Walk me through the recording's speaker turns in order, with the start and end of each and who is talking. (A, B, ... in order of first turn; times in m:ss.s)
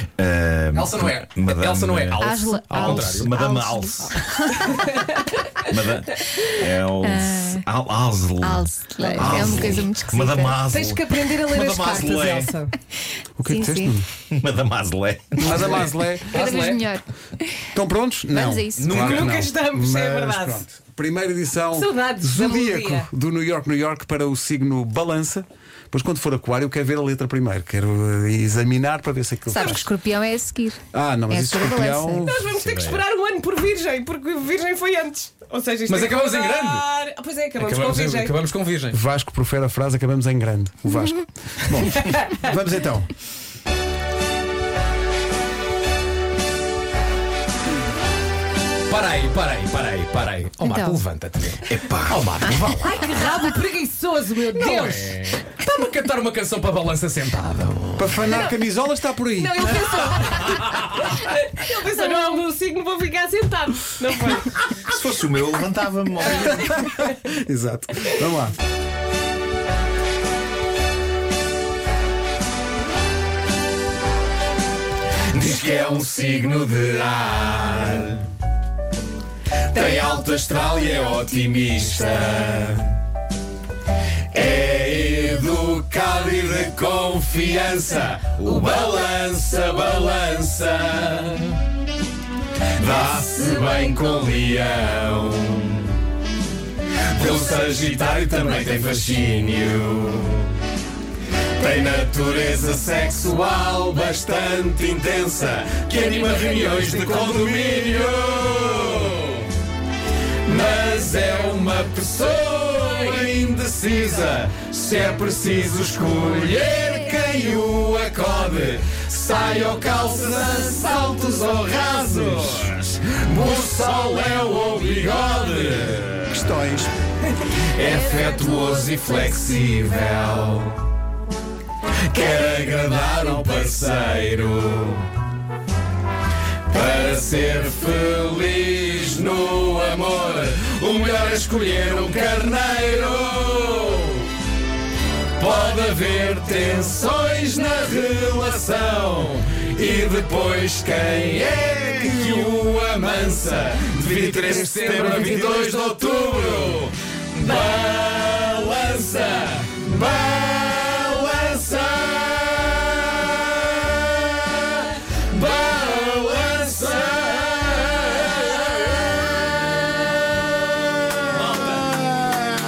0:00.2-0:04.2 A
0:00.8-0:03.4 B
0:02.2-0:04.9 C
0:05.6-0:12.5 A
0:07.0-0:07.7 C
0:08.4-0:10.7 C
0:09.0-0:09.4 D
0:10.7-0:12.8 D
0:13.4-0:14.1 E
0:13.5-0:13.9 C
0:14.3-0:15.9 A
0:15.4-0:16.4 E
0:15.5-0:16.9 B
0:16.3-0:17.6 C
0:17.7-0:29.9 E
0:18.3-0:19.1 C
0:18.8-0:19.4 B
0:18.9-0:20.6 D
0:21.8-0:23.1 D
0:29.5-0:32.4 C
0:29.5-0:29.8 D
0:30.9-0:32.5 E
0:32.3-0:38.4 D
0:32.5-0:33.0 B
0:35.9-0:36.9 B
0:37.6-0:39.0 B
0:38.9-0:43.1 E
0:48.9-0:53.4 B
0:50.6-0:51.0 C
0:51.7-0:52.5 A
0:52.5-0:52.8 C
0:52.8-0:55.2 D
0:54.6-0:58.3 B
0:58.0-0:59.9 E
0:59.4-1:04.7 D
1:04.8-1:06.8 A
1:06.8-1:08.6 E
1:15.3-1:17.9 B
1:15.4-1:16.5 D
1:17.7-1:18.2 D
1:19.7-1:21.2 D
1:19.9-1:22.7 B
1:22.0-1:23.0 D
1:24.4-1:31.4 B
1:28.4-1:29.0 D
1:32.9-1:35.8 B
1:37.2-1:40.3 B
1:37.7-1:39.5 D
1:41.6-1:42.5 D
1:41.6-1:49.5 B
1:44.5-1:44.9 D
1:50.5-2:06.1 B
2:06.3-2:06.9 E
2:07.8-2:10.7 B
2:08.0-2:09.6 C
2:12.1-2:15.0 B
2:13.2-2:13.6 D
2:16.7-2:24.3 B
2:25.4-2:42.9 B
2:25.4-2:25.9 D
2:34.8-2:35.1 D
2:45.3-2:49.1 B
2:46.4-2:47.2 D
2:51.3-2:51.9 B